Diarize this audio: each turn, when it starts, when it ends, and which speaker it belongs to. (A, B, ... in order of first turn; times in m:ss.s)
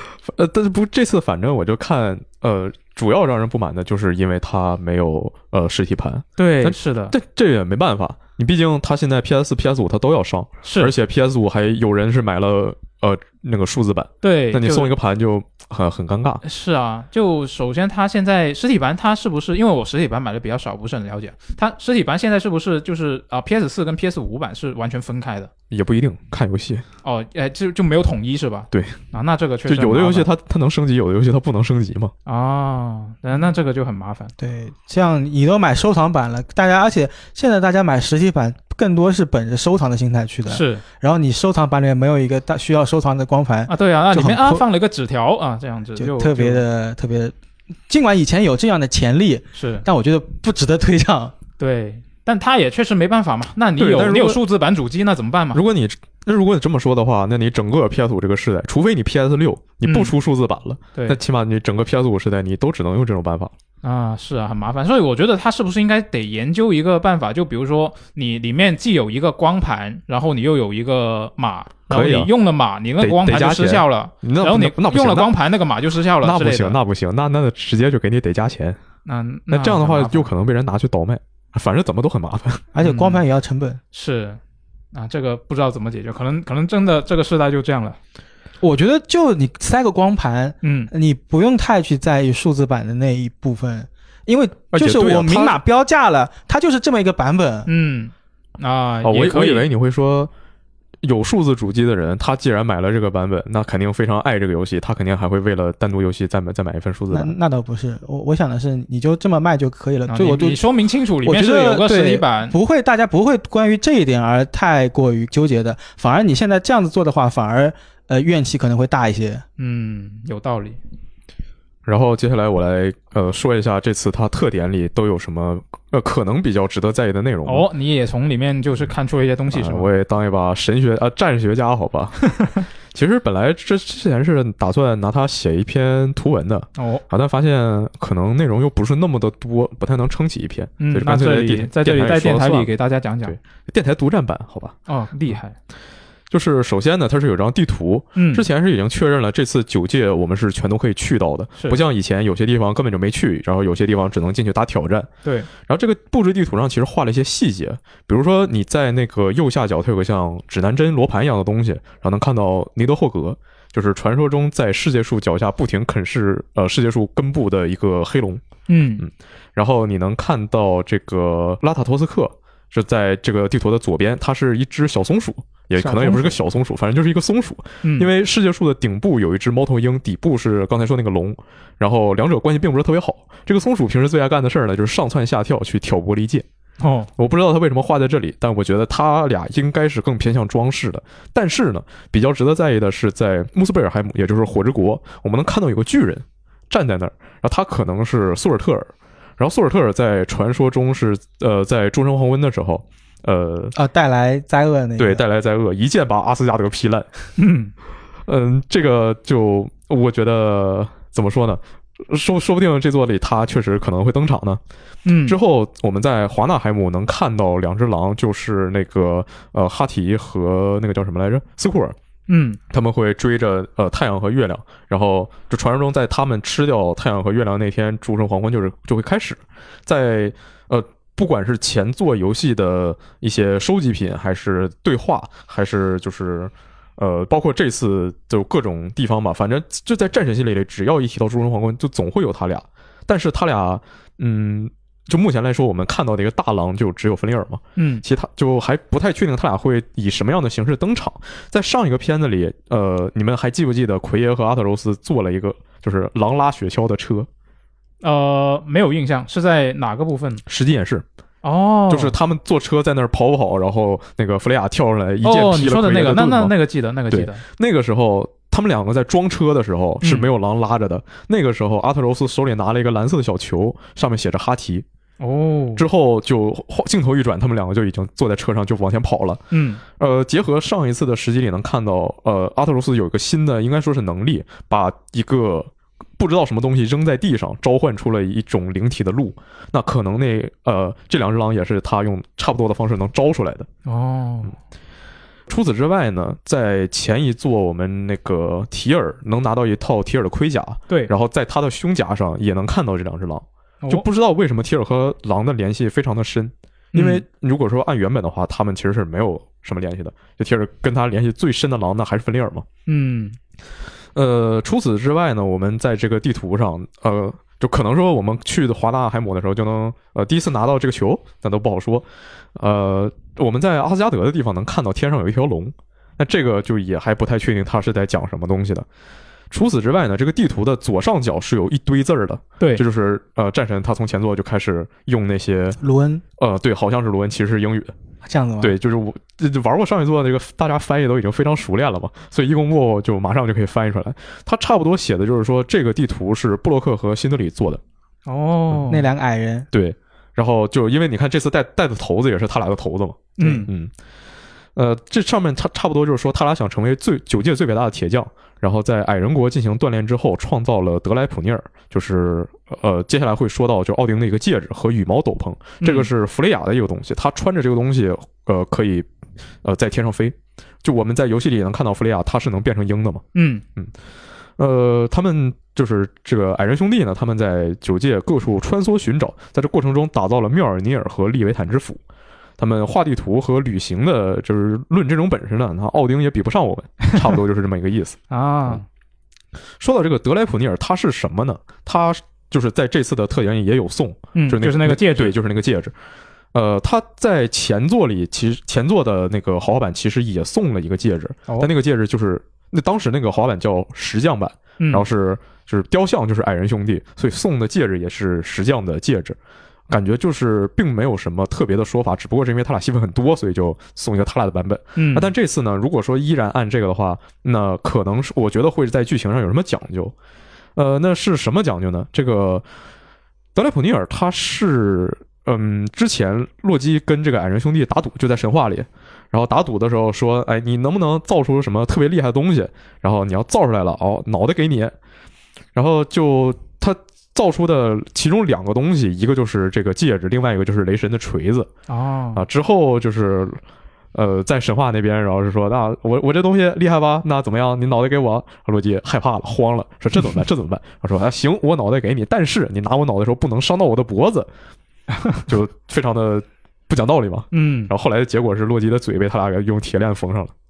0:00.2-0:16.4 A
0:06.4-0:07.2 B
0:10.6-0:10.9 B
0:14.2-0:14.9 B
0:16.4-0:25.5 B
0:25.7-0:26.8 A
0:27.0-0:30.3 B
0:28.7-0:29.0 A
0:29.7-0:32.1 A
0:32.3-0:34.3 B
0:34.4-0:44.6 C
0:40.5-0:40.8 B
0:43.7-0:46.6 B
0:46.0-0:47.4 C
0:47.9-0:51.3 C
0:49.5-0:49.9 B
0:51.6-0:55.6 B
0:53.8-0:54.4 A
0:55.5-1:03.5 A
0:59.8-1:00.1 B
1:03.8-1:16.8 B
1:11.9-1:12.3 A
1:13.0-1:15.3 A
1:16.2-1:18.8 A
1:19.1-1:20.3 B
1:19.5-1:22.7 A
1:22.7-1:23.8 C
1:22.8-1:23.2 B
1:23.9-1:24.4 B
1:24.9-1:28.0 B
1:28.6-1:37.7 C
1:30.6-1:30.9 B
1:34.7-1:35.6 A
1:37.7-1:39.7 B
1:39.0-1:40.3 A
1:41.0-1:47.3 A
1:47.1-1:50.6 C
1:50.1-1:52.6 B
1:51.2-1:59.4 C
1:59.6-2:00.8 B
2:01.9-2:07.7 A
2:07.5-2:09.9 B
2:09.5-2:12.3 A
2:12.3-2:12.6 B
2:12.9-2:22.7 A
2:16.8-2:17.0 B
2:20.8-2:23.4 B
2:23.3-2:24.8 A
2:24.9-2:25.6 B
2:26.3-2:35.1 A
2:28.2-2:28.4 B
2:35.2-2:35.5 B
2:35.6-2:48.4 A
2:48.7-2:49.0 B
2:49.0-3:06.4 A
2:55.8-2:56.4 B
2:57.8-2:58.1 B
3:06.8-3:07.1 B
3:07.2-3:23.8 A
3:23.8-3:25.2 C
3:25.0-3:27.1 A
3:27.4-3:27.7 B
3:28.3-3:34.6 A
3:35.0-3:35.4 B
3:35.3-3:42.0 A
3:42.3-3:42.6 B
3:42.7-4:17.3 A
4:07.8-4:08.0 B
4:18.0-4:20.4 B
4:20.5-4:21.0 A
4:21.4-4:22.2 B
4:21.9-4:26.5 A
4:25.2-4:27.4 B
4:27.1-4:34.8 A
4:30.0-4:30.3 B
4:35.2-4:35.8 B
4:35.8-4:53.7 A
4:39.5-4:39.8 B
4:53.9-4:54.6 B
4:55.5-5:12.7 A
5:06.9-5:07.2 B
5:12.9-5:13.4 B
5:14.2-5:28.9 A
5:29.5-5:35.8 A
5:35.8-5:36.2 C
5:36.4-5:37.9 A
5:38.2-5:38.8 C
5:38.6-5:47.8 A
5:48.3-5:49.1 B
5:48.9-5:49.7 C
5:49.7-5:53.9 A
5:53.4-5:53.7 B
5:53.4-5:53.6 C
5:54.8-6:09.1 A
6:05.8-6:06.1 B
6:09.6-6:13.2 A
6:13.3-6:13.6 B
6:14.6-6:22.0 A
6:22.6-6:28.8 A
6:28.3-6:28.8 B
6:29.8-6:35.9 A
6:34.4-6:35.4 B
6:36.5-6:49.4 A
6:44.8-6:45.1 B
6:49.9-7:00.1 A
6:55.0-6:55.3 B
7:00.8-7:02.6 A
7:03.6-7:15.0 A
7:15.8-7:21.7 A
7:21.9-7:22.4 B
7:22.4-7:23.6 A
7:24.1-7:34.5 A
7:35.4-7:40.5 A
7:37.5-7:37.9 B